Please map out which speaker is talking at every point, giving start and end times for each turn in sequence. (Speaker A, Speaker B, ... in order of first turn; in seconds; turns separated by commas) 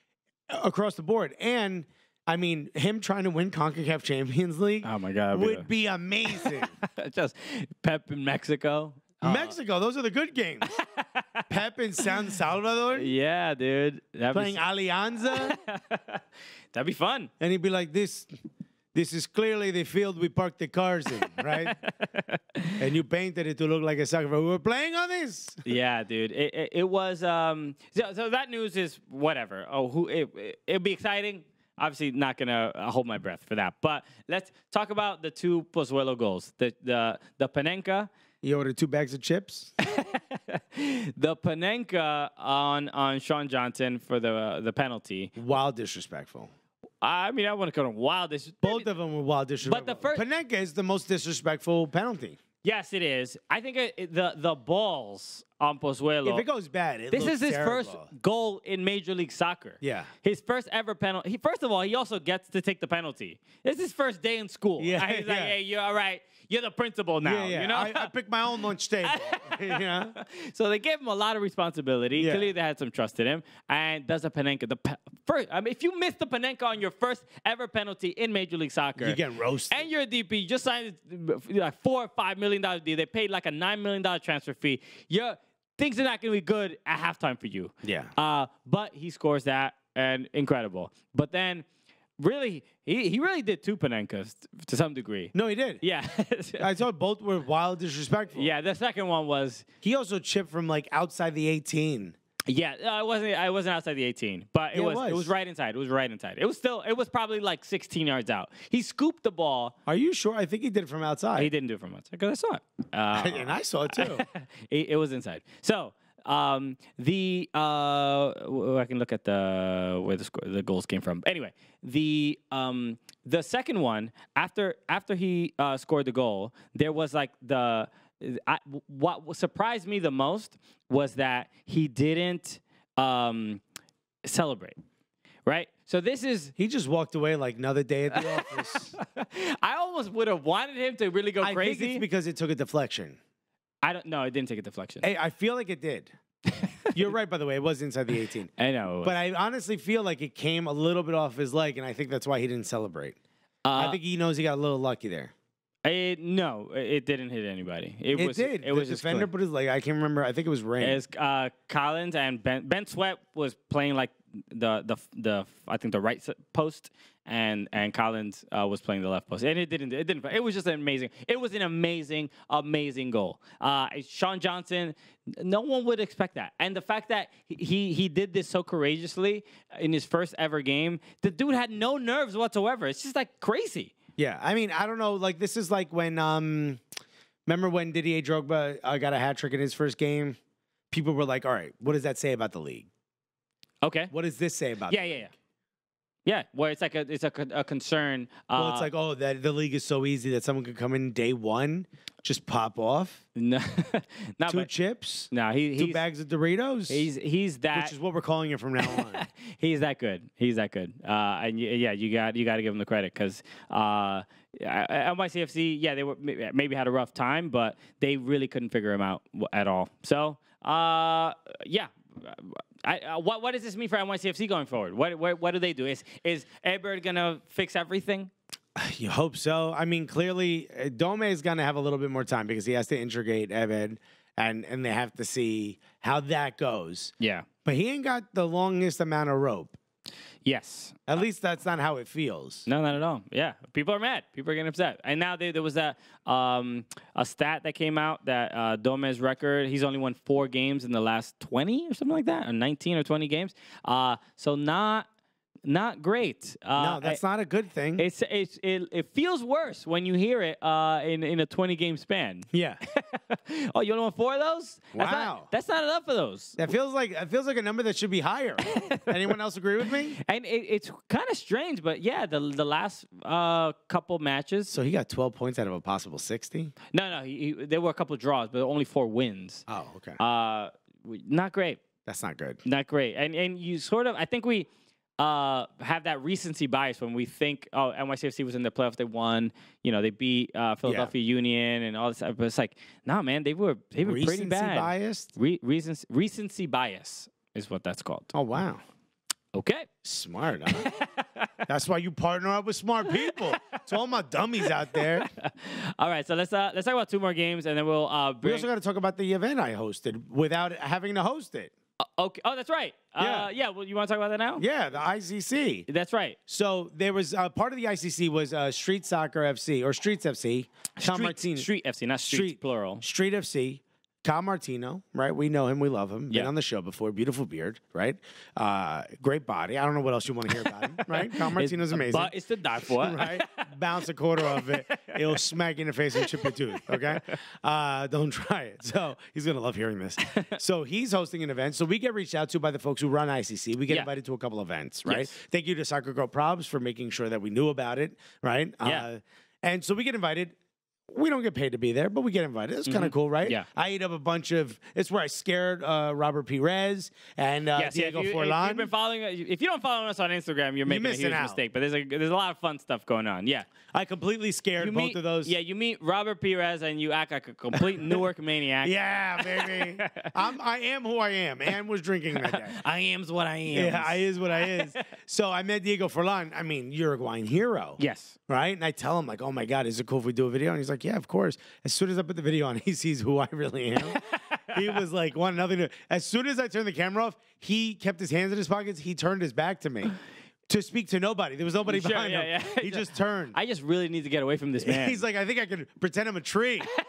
Speaker A: 0.5-6.7, Speaker B: 4.8-5.7, Speaker B: 6.3-9.5, Speaker A: 9.2-10.7, Speaker B: 10.9-11.4, Speaker A: 11.5-13.1, Speaker B: 12.9-14.6, Speaker A: 14.3-15.6, Speaker B: 15.3-16.2, Speaker B: 16.7-17.3, Speaker A: 17.4-18.3, Speaker A: 18.9-21.8, Speaker B: 21.4-22.8, Speaker A: 22.8-25.6, Speaker B: 25.6-38.1, Speaker A: 38.4-39.7, Speaker B: 39.8-45.3, Speaker A: 45.4-46.5, Speaker B: 47.0-48.9, Speaker A: 48.6-52.4, Speaker B: 49.6-50.2, Speaker B: 52.6-56.5, Speaker A: 56.2-58.1, Speaker B: 57.1-68.1, Speaker A: 59.8-60.1, Speaker A: 64.8-65.6, Speaker A: 67.2-70.2, Speaker B: 69.0-79.2, Speaker A: 72.2-72.5, Speaker A: 79.0-79.8, Speaker B: 79.7-91.7, Speaker A: 87.8-88.1, Speaker B: 92.2-96.7, Speaker A: 95.3-95.8, Speaker A: 96.6-98.5, Speaker B: 98.3-99.7, Speaker A: 99.8-102.2, Speaker B: 102.5-109.8, Speaker A: 104.7-105.3, Speaker A: 109.9-111.5, Speaker B: 111.4-133.6, Speaker A: 113.2-114.3, Speaker B: 134.2-134.8, Speaker B: 135.5-136.5, Speaker A: 136.6-138.9, Speaker B: 138.1-142.1, Speaker A: 141.4-143.2, Speaker B: 143.8-145.1, Speaker A: 145.0-146.1, Speaker B: 146.5-147.0, Speaker A: 146.9-148.5, Speaker B: 148.6-149.2, Speaker A: 149.0-153.2, Speaker B: 153.7-154.0, Speaker A: 153.8-155.3, Speaker B: 155.8-159.3, Speaker A: 158.1-161.0, Speaker B: 160.8-183.9, Speaker A: 184.2-186.8, Speaker A: 187.5-190.4, Speaker A: 190.9-192.9, Speaker B: 193.8-194.1, Speaker A: 194.1-195.1, Speaker B: 194.9-195.3, Speaker B: 196.3-198.9, Speaker A: 198.6-203.2, Speaker B: 203.3-204.7, Speaker A: 204.5-207.1, Speaker B: 205.3-206.0, Speaker B: 206.9-207.9, Speaker A: 207.7-209.2, Speaker B: 208.9-228.3, Speaker A: 228.8-237.1, Speaker B: 237.2-237.5, Speaker A: 237.7-239.8, Speaker B: 240.4-241.0, Speaker A: 241.1-242.7, Speaker B: 242.7-255.1, Speaker B: 255.7-257.2, Speaker A: 256.8-258.1, Speaker B: 258.0-266.6, Speaker A: 262.5-262.8, Speaker A: 264.9-265.5, Speaker A: 266.6-270.2, Speaker B: 270.2-274.7, Speaker A: 274.7-276.7, Speaker B: 276.9-279.6, Speaker A: 279.7-280.2, Speaker B: 280.2-281.8, Speaker A: 282.1-282.6, Speaker B: 282.6-284.7, Speaker B: 285.2-298.3, Speaker A: 290.9-291.1, Speaker A: 294.0-295.3, Speaker A: 298.3-298.8, Speaker B: 299.5-299.9, Speaker A: 300.0-300.8, Speaker B: 300.7-301.5, Speaker A: 301.7-305.3, Speaker B: 304.9-308.7, Speaker A: 308.4-311.7, Speaker B: 312.0-314.6, Speaker A: 313.2-313.5, Speaker A: 314.6-315.9, Speaker B: 315.9-316.4, Speaker A: 316.5-321.7, Speaker B: 321.0-323.0, Speaker A: 322.3-350.6, Speaker B: 330.7-333.7, Speaker B: 334.5-335.3, Speaker B: 336.2-336.5, Speaker B: 345.1-345.4, Speaker A: 351.1-358.9, Speaker B: 352.9-353.7, Speaker B: 357.8-363.7, Speaker A: 360.9-361.6, Speaker A: 363.9-365.5, Speaker B: 364.8-370.3, Speaker A: 367.8-368.2, Speaker A: 368.8-372.8, Speaker B: 372.4-375.0, Speaker A: 373.7-384.2, Speaker B: 378.0-378.4, Speaker B: 384.1-384.9, Speaker A: 384.7-390.1, Speaker A: 390.7-393.6, Speaker B: 391.9-395.2, Speaker A: 394.8-396.9